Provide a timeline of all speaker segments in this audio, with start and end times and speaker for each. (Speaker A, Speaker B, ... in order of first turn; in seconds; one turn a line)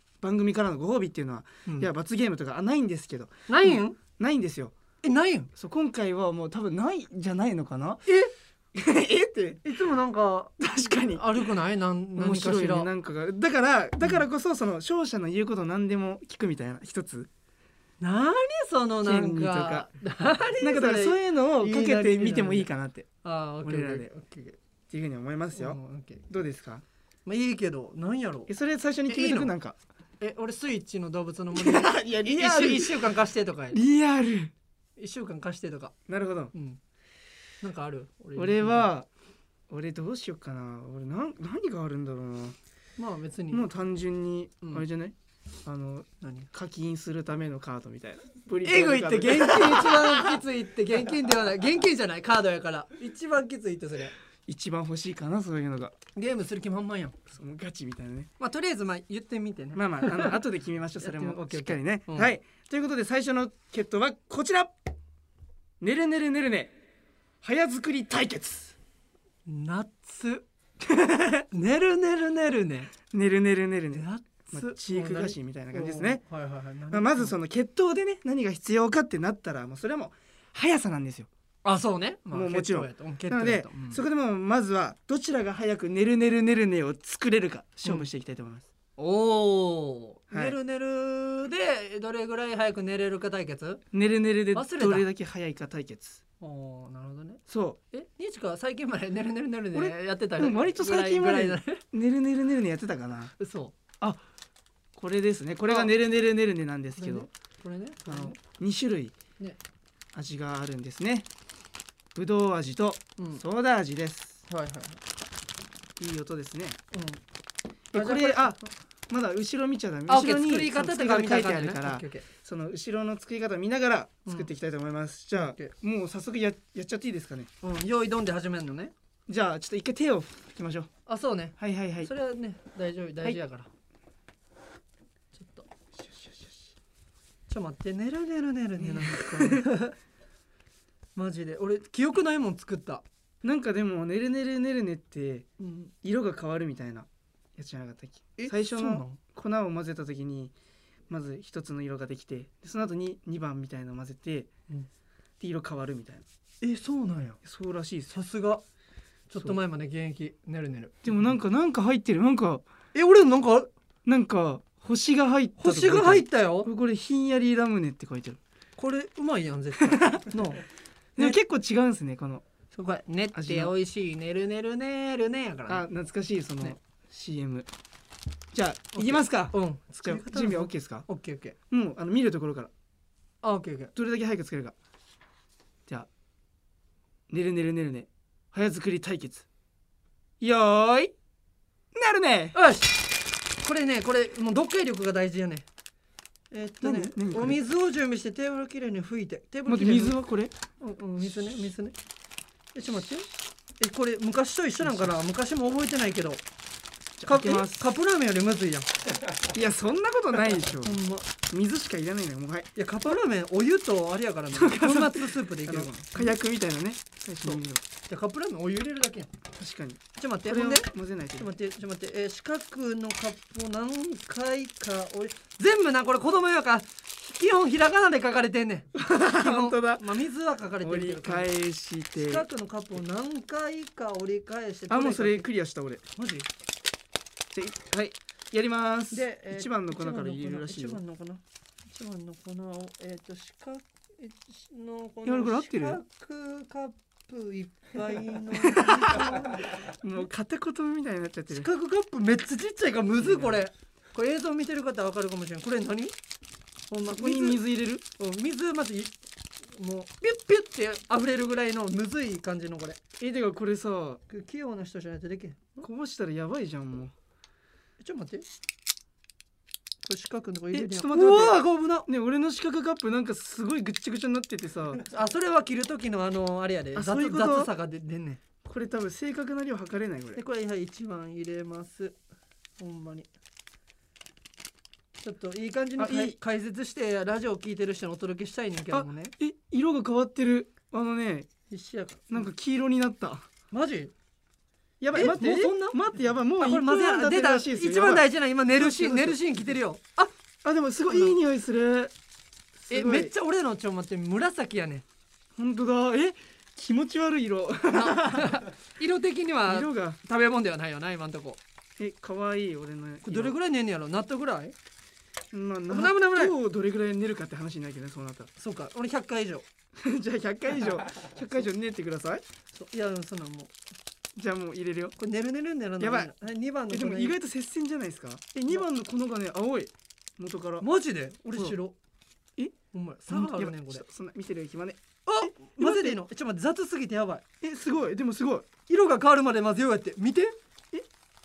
Speaker A: 0.2-4.7
Speaker B: 3.5-4.0
Speaker B: 5.0-5.5
Speaker A: 5.5-8.1
Speaker B: 8.1-8.3
Speaker A: 8.7-9.6
Speaker B: 9.6-12.9
Speaker A: 10.6-11.4
Speaker A: 12.2-17.3
Speaker B: 18.0-22.7
Speaker A: 19.0-19.9
Speaker A: 20.6-23.1
Speaker B: 23.2-24.6
Speaker A: 23.6-24.1
Speaker A: 24.9-26.8
Speaker B: 25.5-26.2
Speaker B: 27.3-28.5
Speaker A: 28.5-29.8
Speaker B: 29.1-29.5
Speaker B: 30.2-33.8
Speaker A: 31.6-33.2
Speaker A: 33.7-34.5
Speaker B: 35.0-35.9
Speaker A: 36.1-36.5
Speaker B: 36.5-36.8
Speaker B: 37.6-38.9
Speaker A: 38.4-39.1
Speaker A: 39.7-42.6
Speaker B: 43.0-43.7
Speaker A: 43.5-50.4
Speaker B: 46.2-46.5
Speaker B: 48.6-54.1
Speaker A: 54.5-56.0
Speaker B: 56.2-57.2
Speaker A: 57.3-58.3
Speaker B: 58.4-60.4
Speaker A: 59.7-64.7
Speaker B: 61.0-62.3
Speaker A: 65.8-66.8
Speaker A: 67.4-68.8
Speaker B: 69.5-70.5
Speaker A: 70.8-71.5
Speaker B: 71.5-72.9
Speaker A: 73.1-76.2
Speaker B: 73.9-77.3
Speaker A: 76.9-81.3
Speaker B: 81.6-84.0
Speaker A: 82.3-88.7
Speaker B: 89.0-93.8
Speaker A: 90.3-90.6
Speaker A: 93.9-96.2
Speaker B: 94.5-95.1
Speaker B: 96.4-101.8
Speaker A: 97.5-97.8
Speaker A: 99.7-103.3
Speaker B: 103.4-103.8
Speaker A: 105.0-107.3
Speaker B: 107.0-108.4
Speaker A: 108.1-109.2
Speaker A: 110.1-111.3
Speaker A: 112.2-114.4
Speaker B: 113.2-113.4
Speaker B: 114.5-115.0
Speaker A: 116.0-116.8
Speaker B: 116.9-117.2
Speaker A: 117.9-118.6
Speaker B: 117.9-118.7
Speaker A: 119.1-127.5
Speaker B: 120.1-122.3
Speaker B: 125.3-125.7
Speaker B: 127.6-128.9
Speaker A: 129.3-130.9
Speaker B: 131.1-133.7
Speaker A: 131.6-132.1
Speaker B: 135.3-135.7
Speaker A: 136.0-136.7
Speaker B: 137.5-140.0
Speaker A: 138.8-139.7
Speaker B: 141.2-143.1
Speaker A: 143.4-145.5
Speaker B: 145.6-145.9
Speaker A: 146.0-150.6
Speaker B: 148.4-149.2
Speaker A: 151.1-154.5
Speaker A: 155.4-156.2
Speaker B: 156.6-157.4
Speaker A: 157.4-158.2
Speaker B: 158.1-158.6
Speaker B: 159.3-161.0
Speaker A: 161.1-162.7
Speaker B: 162.9-163.7
Speaker A: 164.1-168.4
Speaker B: 165.6-166.7
Speaker B: 168.8-170.6
Speaker A: 169.8-170.3
Speaker A: 171.2-172.4
Speaker B: 172.7-175.9
Speaker A: 173.3-173.7
Speaker A: 175.7-177.7
Speaker A: 178.5-181.1
Speaker B: 178.9-181.6
Speaker A: 181.7-182.7
Speaker B: 183.4-183.9
Speaker A: 184.0-184.8
Speaker A: 187.3-189.5
Speaker A: 190.4-191.1
Speaker A: 191.9-192.6
Speaker B: 192.5-193.1
Speaker B: 193.6-195.7
Speaker B: 196.5-200.2
Speaker A: 196.8-197.6
Speaker A: 199.7-200.5
Speaker B: 200.8-201.9
Speaker B: 202.7-203.3
Speaker B: 203.8-206.4
Speaker A: 204.8-205.1
Speaker A: 207.2-207.9
Speaker B: 207.3-208.9
Speaker A: 209.5-211.0
Speaker B: 210.8-211.3
Speaker A: 211.5-212.7
Speaker B: 212.8-216.4
Speaker A: 214.5-217.8
Speaker B: 217.4-219.3
Speaker A: 219.6-221.5
Speaker B: 220.2-231.5
Speaker A: 228.9-230.0
Speaker A: 230.8-232.4
Speaker B: 232.2-235.5
Speaker A: 234.9-236.0
Speaker B: 236.2-236.5
Speaker A: 237.5-241.0
Speaker B: 239.1-249.8
Speaker A: 245.2-246.0
Speaker A: 248.5-251.7
Speaker B: 251.5-256.1
Speaker A: 253.2-253.6
Speaker B: 256.9-257.6
Speaker A: 257.1-258.0
Speaker B: 258.2-259.1
Speaker B: 259.7-263.0
Speaker A: 263.2-264.2
Speaker B: 264.3-265.8
Speaker A: 265.8-267.1
Speaker B: 268.0-268.5
Speaker B: 270.1-272.1
Speaker A: 270.7-275.0
Speaker B: 275.0-278.4
Speaker A: 276.9-277.7
Speaker A: 278.6-280.4
Speaker B: 280.4-282.2
Speaker B: 282.8-283.3
Speaker B: 285.2-289.3
Speaker A: 286.0-286.4
Speaker A: 288.9-291.5
Speaker B: 291.7-292.5
Speaker A: 292.3-293.5
Speaker B: 293.7-294.1
Speaker A: 295.0-299.4
Speaker B: 295.1-296.0
Speaker B: 296.6-300.3
Speaker A: 300.6-302.1
Speaker B: 301.1-301.4
Speaker A: 302.8-303.3
Speaker B: 302.9-305.1
Speaker A: 305.6-308.6
Speaker B: 307.9-311.6
Speaker A: 309.7-310.2
Speaker A: 312.0-313.6
Speaker B: 313.2-314.8
Speaker A: 315.5-318.5
Speaker B: 315.9-316.6
Speaker B: 318.6-319.7
Speaker A: 320.0-322.4
Speaker B: 322.7-323.7
Speaker A: 324.4-325.1
Speaker B: 325.2-327.4
Speaker A: 326.0-326.3
Speaker A: 326.9-330.9
Speaker B: 330.8-332.0
Speaker B: 332.9-334.0
Speaker A: 333.3-336.2
Speaker B: 335.3-337.4
Speaker A: 337.6-338.7
Speaker B: 338.9-340.6